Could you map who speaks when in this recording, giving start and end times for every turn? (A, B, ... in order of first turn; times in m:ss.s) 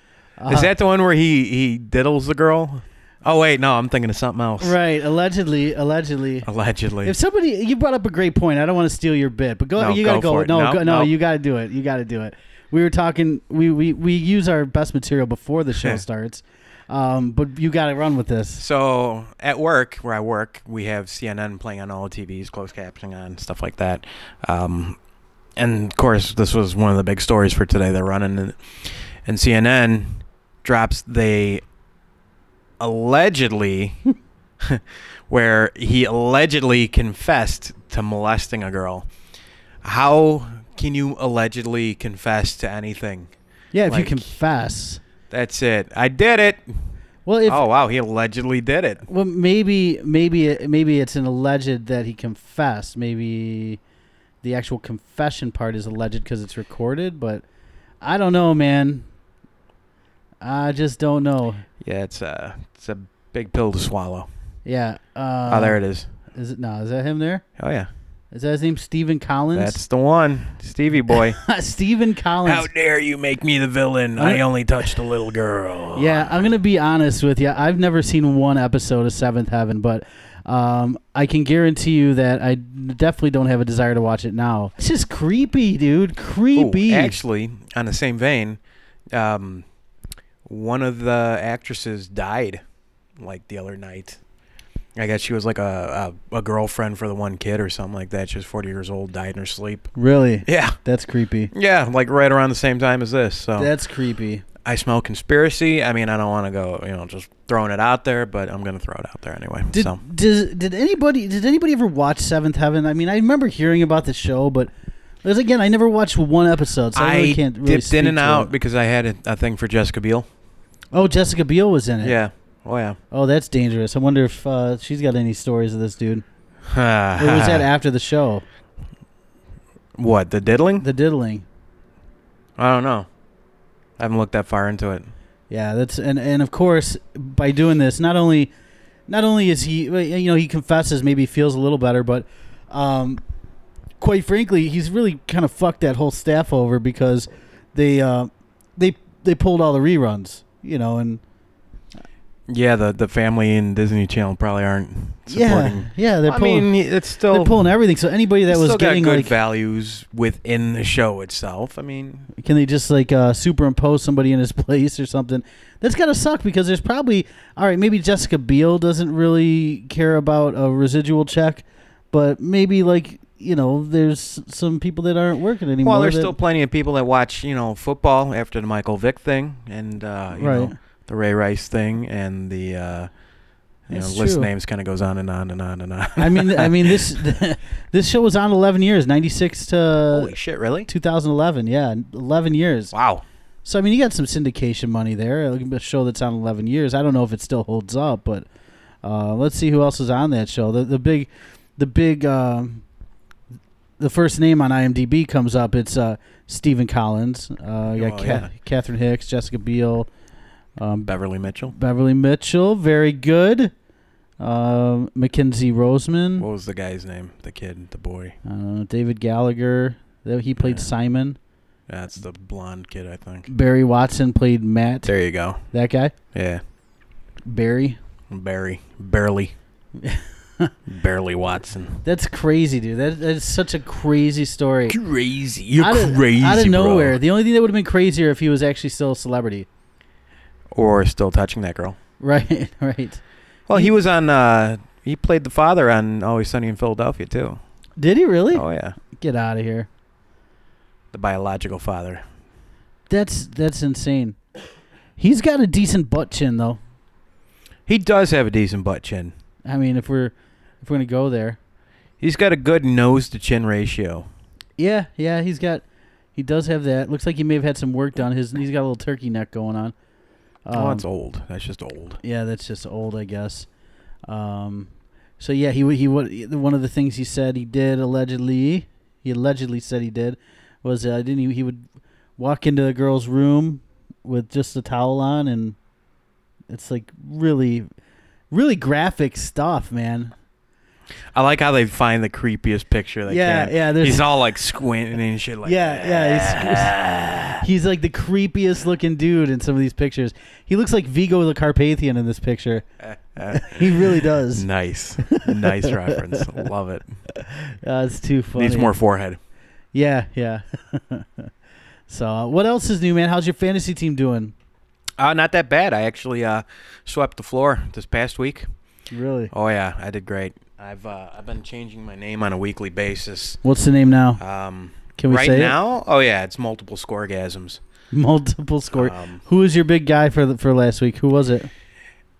0:00.4-0:00.7 A
0:00.5-0:04.8 B
0:04.6-0:06.5 A
0:06.4-0:07.2 B
0:07.0-0:18.6 A
0:09.8-0:11.1 B
0:15.8-0:16.0 B
0:18.6-0:25.0 B
0:25.6-0:31.6 B
0:32.8-0:34.0 B
0:34.6-0:39.1 B
0:39.8-0:43.3 B
0:43.7-0:45.0 A
0:43.9-0:44.3 B
0:45.3-0:46.8 B
0:47.3-0:47.6 A
0:47.5-0:49.1 B
0:49.1-0:53.8 A
0:54.4-0:57.4 A
0:58.0-0:59.0 A
1:00.4-1:01.6 A
1:01.8-1:04.3 B
1:04.6-1:05.8 A
1:05.5-1:06.1 B
1:06.3-1:07.4 A
1:07.6-1:07.9 B
1:08.3-1:09.8 A
1:09.5-1:11.4 B
1:11.2-1:12.7 A
1:12.4-1:16.4 B
1:14.2-1:14.5 A
1:16.0-1:27.2 A
1:26.6-1:28.6 B
1:29.1-1:29.7 B
1:30.4-1:32.6 B
1:33.2-1:34.2 B
1:35.0-1:39.9 B
1:40.0-1:41.5 A
1:40.4-1:40.8 B
1:41.5-1:43.7 B
1:43.6-1:44.4 A
1:44.6-1:50.0 B
1:49.7-1:54.7 A
1:55.2-1:58.5 A
1:56.9-2:00.3 B
2:00.9-2:02.2 A
2:02.0-2:03.0 B
2:03.1-2:06.2 A
2:06.7-2:07.7 B
2:07.2-2:08.4 A
2:10.0-2:10.8 B
2:10.8-2:11.4 A
2:12.6-2:13.1 B
2:14.0-2:15.1 B
2:15.5-2:18.5 A
2:19.1-2:23.2 A
2:24.0-2:31.2 A
2:32.5-2:37.7 B
2:35.3-2:36.7 A
2:37.3-2:39.3 A
2:38.5-2:42.3 B
2:42.4-2:56.4 A
2:55.8-3:03.1 B
3:00.4-3:00.7 A
3:03.9-3:07.2 B
3:03.9-3:04.5 A
3:06.2-3:10.4 A
3:10.1-3:10.9 B
3:10.9-3:12.9 A
3:12.9-3:13.2 B
3:13.6-3:18.5 A
3:19.0-3:22.8 A
3:24.0-3:30.1 A
3:28.0-3:28.5 B
3:30.8-3:31.1 A
3:31.1-3:31.7 B
3:31.7-3:33.7 A
3:34.4-3:36.5 A
3:36.4-3:38.4 B
3:38.4-3:41.4 A
3:40.6-3:40.9 B
3:41.9-3:43.5 B
3:43.5-3:45.1 A
3:45.0-3:45.6 B
3:45.7-3:46.1 A
3:46.3-3:46.6 B
3:47.4-3:48.0 A
3:48.3-3:49.6 B
3:50.0-3:50.7 A
3:50.9-3:52.0 B
3:52.0-3:55.0 A
3:54.9-3:57.2 B
3:55.8-3:59.7 A
4:00.7-4:02.0 B
4:02.2-4:03.2 A
4:03.7-4:07.6 B
4:08.0-4:09.9 A
4:08.5-4:09.0 B
4:11.1-4:12.2 B
4:13.1-4:14.4 A
4:15.2-4:16.8 A
4:17.9-4:19.3 B
4:19.6-4:21.6 A
4:22.2-4:24.3 B
4:24.8-4:25.8 A
4:26.4-4:30.0 A
4:30.6-4:31.0 A
4:30.7-4:32.2 B
4:32.2-4:33.7 A
4:34.3-4:41.8 A
4:42.4-4:45.8 A
4:46.7-4:47.9 A
4:48.5-4:50.3 A
4:51.3-4:57.7 B
4:53.3-4:54.3 A
4:55.6-4:57.0 A
4:57.6-5:02.9 A
5:03.0-5:07.0 B
5:03.5-5:04.7 A
5:05.2-5:06.6 A
5:07.3-5:09.0 A
5:08.6-5:09.4 B
5:09.9-5:11.5 A
5:12.1-5:14.5 A
5:15.2-5:18.7 B
5:19.1-5:19.5 A
5:19.5-5:23.6 B
5:23.6-5:24.4 A
5:24.4-5:27.8 B
5:25.2-5:25.8 A
5:28.1-5:31.7 A
5:28.9-5:29.4 B